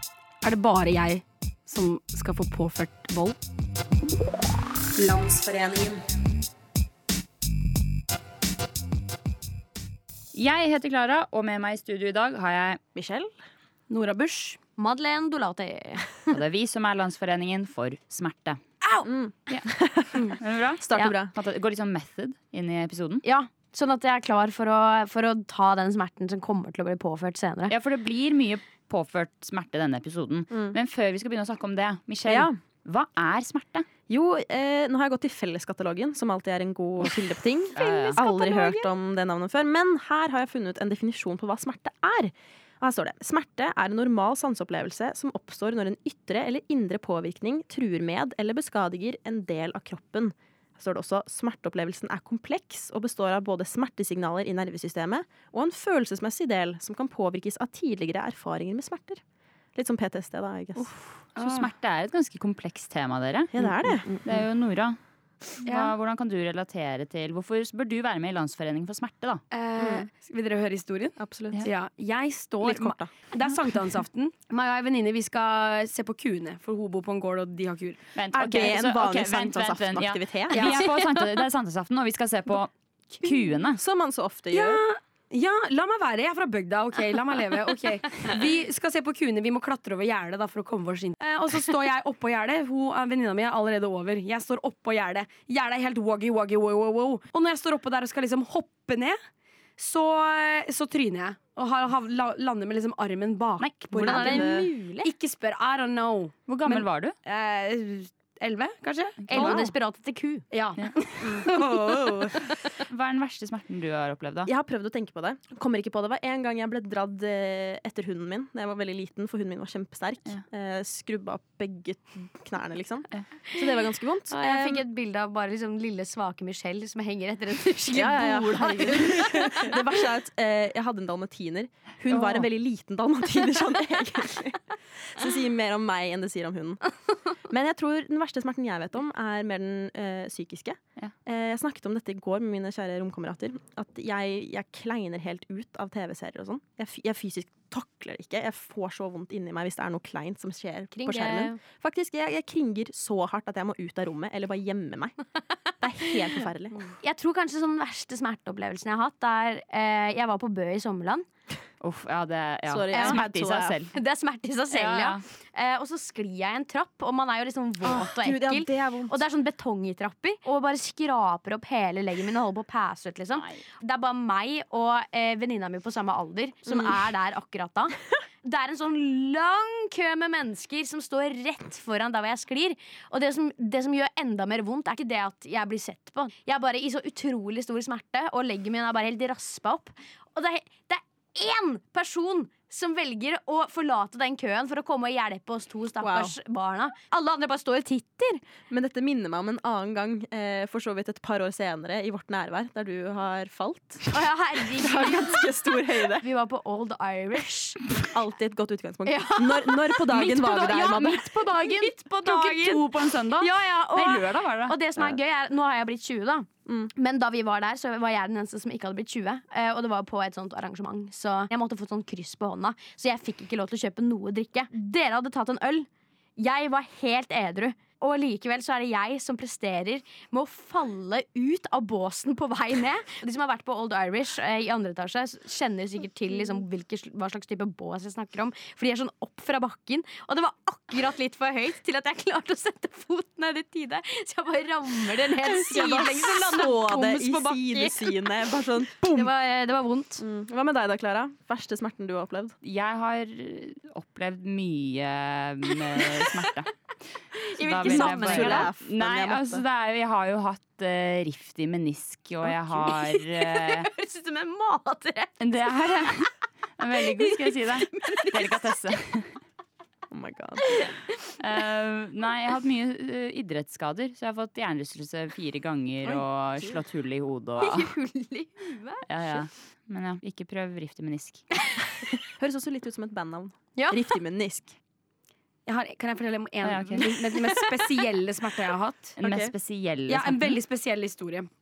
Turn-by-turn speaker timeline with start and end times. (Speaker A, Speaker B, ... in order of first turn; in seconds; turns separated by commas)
Speaker A: 0.4-3.4, Speaker A: 5.6-5.9, Speaker B: 10.3-12.8, Speaker C: 12.9-13.3, Speaker A: 13.9-14.6, Speaker D: 14.6-16.3, Speaker B: 16.3-18.6, Speaker C: 19.0-21.3, Speaker B: 20.4-23.2, Speaker D: 23.2-27.7, Speaker B: 27.7-33.9, Speaker C: 30.5-30.8, Speaker C: 32.2-32.6, Speaker C: 34.1-59.2, Speaker D: 37.7-38.9, Speaker B: 37.8-38.2, Speaker C: 59.7-60.9, Speaker B: 60.8-65.0, Speaker A: 61.3-61.7, Speaker C: 63.5-64.4, Speaker B: 65.6-69.4, Speaker A: 65.6-65.9, Speaker A: 69.5-78.0, Speaker C: 69.8-70.1, Speaker C: 71.2-71.6, Speaker C: 72.6-73.2, Speaker B: 78.1-83.8, Speaker C: 78.3-80.8, Speaker A: 80.5-80.8, Speaker C: 83.7-84.8, Speaker A: 84.5-99.2, Speaker A: 99.8-109.6, Speaker B: 103.6-103.9, Speaker C: 103.9-105.1, Speaker D: 104.0-105.1, Speaker B: 106.5-107.1, Speaker B: 109.2-109.6, Speaker D: 109.3-110.4, Speaker C: 109.3-109.6, Speaker A: 110.5-112.4, Speaker B: 112.9-114.5, Speaker C: 114.5-124.8, Speaker D: 123.5-129.8, Speaker C: 127.9-134.6, Speaker C: 135.1-136.9, Speaker C: 137.4-155.2, Speaker D: 150.9-151.6, Speaker C: 155.8-156.8, Speaker D: 157.0-161.2, Speaker B: 161.8-163.9, Speaker C: 162.7-163.8, Speaker D: 162.9-163.2, Speaker D: 163.9-198.4, Speaker B: 164.7-165.2, Speaker C: 167.8-169.2, Speaker B: 173.3-173.6, Speaker C: 176.7-176.9, Speaker C: 196.0-196.3, Speaker C: 198.7-204.1, Speaker D: 204.1-205.5, Speaker C: 204.7-206.2, Speaker D: 206.2-208.0, Speaker C: 208.0-211.2, Speaker D: 209.0-210.1, Speaker B: 210.1-214.8, Speaker D: 210.7-248.2, Speaker C: 245.4-249.3, Speaker D: 249.0-250.2, Speaker C: 250.2-252.5, Speaker B: 252.6-256.7, Speaker D: 257.5-258.7, Speaker B: 257.6-263.9, Speaker C: 257.8-259.6, Speaker D: 262.8-265.4, Speaker B: 265.4-269.3, Speaker D: 267.9-268.5, Speaker C: 270.1-270.7, Speaker B: 271.4-277.9, Speaker D: 277.6-279.1, Speaker B: 279.1-281.4, Speaker C: 282.4-284.7, Speaker D: 283.8-284.1, Speaker A: 285.6-289.2, Speaker B: 286.6-287.1, Speaker B: 289.2-290.6, Speaker A: 290.1-291.5